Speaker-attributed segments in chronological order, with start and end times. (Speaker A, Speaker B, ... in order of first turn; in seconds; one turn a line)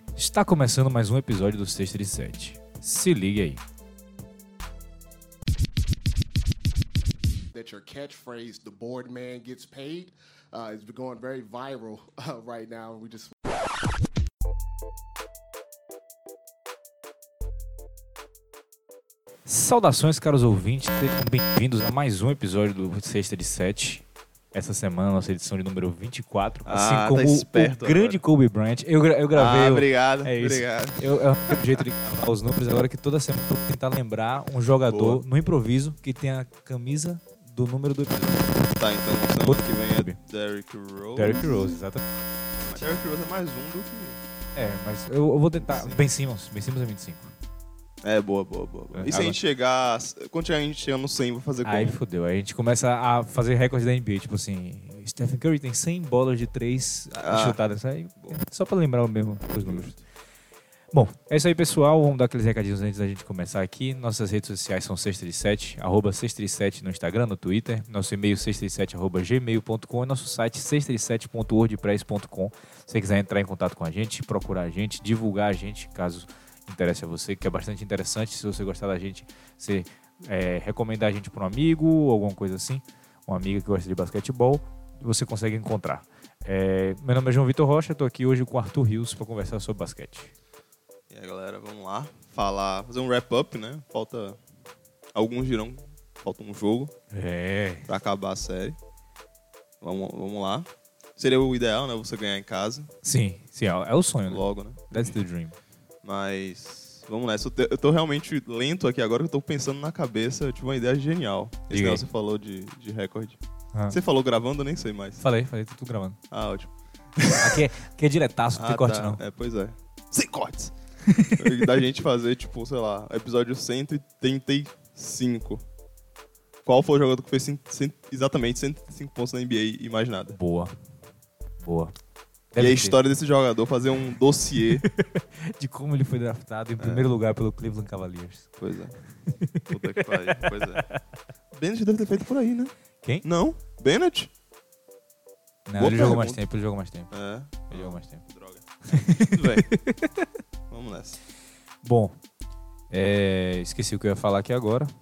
Speaker A: 0.2-3.6
Speaker B: 7.5-13.3
Speaker A: 19.5-38.5
Speaker C: 26.7-28.2
Speaker C: 29.4-31.8
Speaker C: 34.9-35.2
Speaker C: 38.8-41.8
Speaker A: 39.4-40.2
Speaker A: 41.2-42.0
Speaker C: 42.6-44.2
Speaker A: 44.5-47.3
Speaker C: 45.6-46.1
Speaker C: 48.0-52.0
Speaker A: 48.9-49.4
Speaker A: 51.6-60.0
Speaker C: 57.1-57.6
Speaker C: 59.6-60.0
Speaker A: 60.9-90.3
Speaker C: 91.1-94.4
Speaker C: 95.2-96.9
Speaker A: 97.1-97.9
Speaker C: 97.9-98.8
Speaker C: 99.8-102.9
Speaker A: 103.0-105.5
Speaker C: 104.3-105.2
Speaker C: 106.0-113.4
Speaker A: 111.7-112.0
Speaker C: 113.9-115.2
Speaker A: 115.2-116.2
Speaker C: 116.3-117.6
Speaker A: 117.3-119.2
Speaker C: 118.5-120.7
Speaker A: 121.1-121.4
Speaker C: 121.4-125.6
Speaker C: 126.7-130.4
Speaker A: 130.3-130.8
Speaker A: 131.6-131.9
Speaker A: 132.5-133.0
Speaker C: 132.6-134.9
Speaker A: 134.8-138.5
Speaker C: 136.8-137.1
Speaker C: 138.6-138.9
Speaker A: 139.2-141.0
Speaker C: 139.7-140.8
Speaker C: 141.5-142.7
Speaker C: 143.2-144.3
Speaker A: 145.7-147.1
Speaker C: 145.8-146.4
Speaker C: 147.1-149.7
Speaker A: 147.7-148.2
Speaker A: 148.9-150.3
Speaker C: 150.7-151.2
Speaker A: 151.8-152.2
Speaker A: 152.9-154.9